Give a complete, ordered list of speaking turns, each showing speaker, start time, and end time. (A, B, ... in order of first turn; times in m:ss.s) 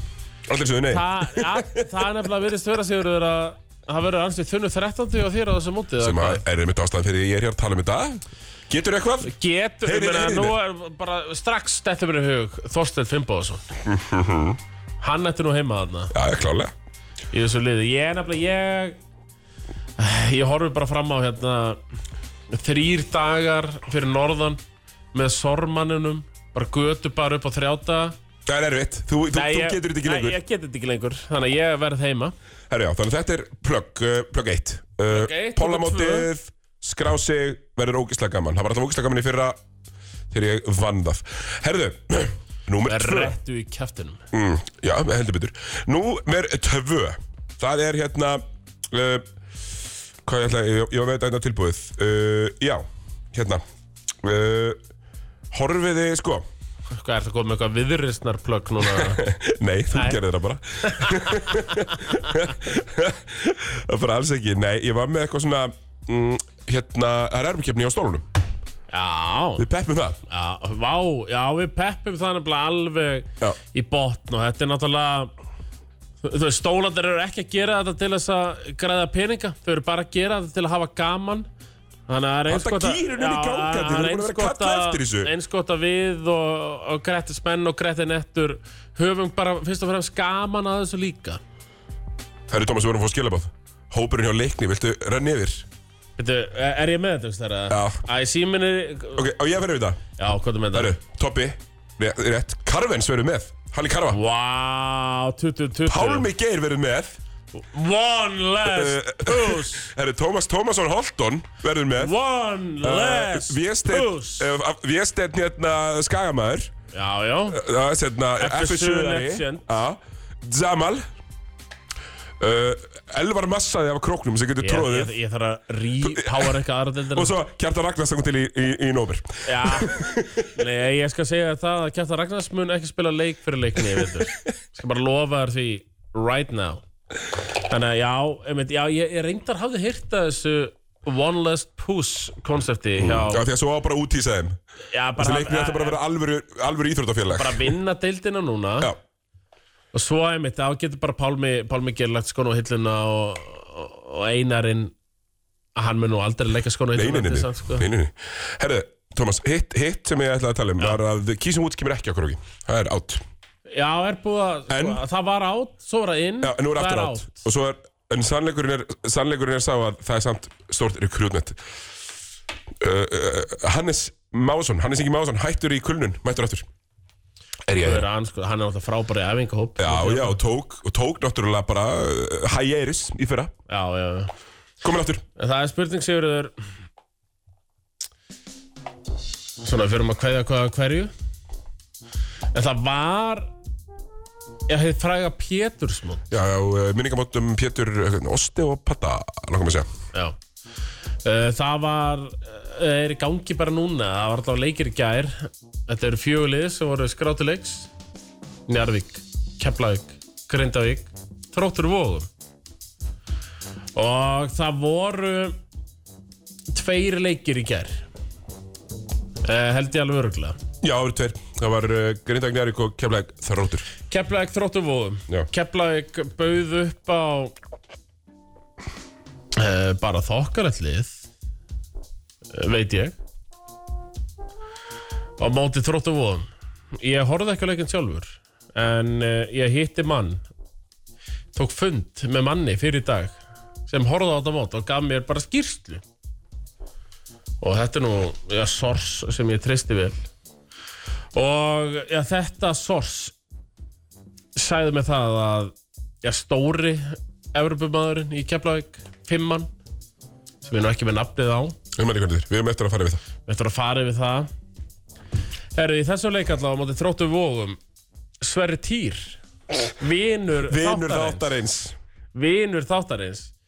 0:00.5-0:02.1 A
0:00.9-0:06.4 B
0:06.0-0:09.3 A
0:09.2-0:13.6 B
0:09.8-0:10.6 A
0:13.9-0:14.6 A
0:15.0-0:16.1 B
0:16.1-0:16.7 A
0:17.3-0:19.0 B
0:20.0-0:21.8 B
0:22.5-0:24.6 B
0:25.1-0:28.2 B
0:28.5-0:30.4 A
0:29.3-0:32.4 B
0:32.7-0:39.6 A
0:35.1-0:36.3 B
0:40.3-0:43.4 A
0:42.8-0:44.2 B
0:44.3-0:49.3 A
0:50.2-0:53.6 A
0:54.2-0:54.8 A
0:55.5-0:56.4 A
0:56.9-0:59.2 B
0:58.9-1:08.3 A
0:59.9-1:00.2 B
1:00.8-1:02.4 B
1:08.9-1:09.7 B
1:09.6-1:10.2 A
1:10.3-1:15.3 B
1:16.2-1:21.5 B
1:22.1-1:31.4 B
1:22.5-1:25.3 A
1:32.5-1:35.6 A
1:36.2-1:39.3 B
1:37.7-1:38.0 A
1:39.2-1:40.0 A
1:40.2-1:41.0 B
1:40.7-1:44.2 A
1:44.1-1:46.3 B
1:45.9-1:47.2 A
1:47.5-1:49.9 B
1:48.6-1:52.1 A
1:52.0-1:54.5 B
1:52.8-1:56.7 A
1:56.9-1:57.6 B
1:57.5-2:01.1 A
1:58.4-1:59.7 B
2:02.4-2:05.1 A
2:04.6-2:07.3 B
2:06.0-2:06.5 A
2:07.1-2:10.6 A
2:09.4-2:16.8 B
2:17.7-2:23.5 B
2:23.0-2:24.6 A
2:24.9-2:26.0 B
2:25.2-2:27.7 A
2:27.3-2:28.9 B
2:29.9-2:34.9 B
2:35.8-2:37.9 B
2:37.0-2:43.2 A
2:43.7-2:47.4 B
2:44.7-2:45.0 A
2:46.4-2:51.6 A
2:52.8-2:56.7 A
2:57.7-2:58.0 A
2:57.8-3:00.4 B
2:59.8-3:03.5 A
3:03.7-3:04.3 B
3:04.8-3:05.2 A
3:05.4-3:06.5 B
3:09.6-3:11.1 B
3:12.5-3:13.5 B
3:14.7-3:16.3 B
3:16.3-3:19.9 A
3:21.2-3:27.9 B
3:28.7-3:32.3 B
3:34.0-3:35.6 B
3:36.7-3:38.0 B
3:39.4-3:40.6 B
3:40.8-3:43.9 A
3:44.1-3:47.6 B
3:49.5-3:51.2 B
3:52.5-3:53.2 B
3:55.4-4:00.4 B
4:01.6-4:03.4 B
4:03.9-4:06.0 B
4:07.6-4:10.2 B
4:11.3-4:13.4 B
4:14.6-4:19.7 B
4:20.6-4:21.8 B
4:21.9-4:23.2 A
4:23.5-4:24.5 B
4:25.8-4:27.8 B
4:28.4-4:29.4 B
4:30.0-4:31.5 B
4:30.7-4:32.0 A
4:32.3-4:33.5 B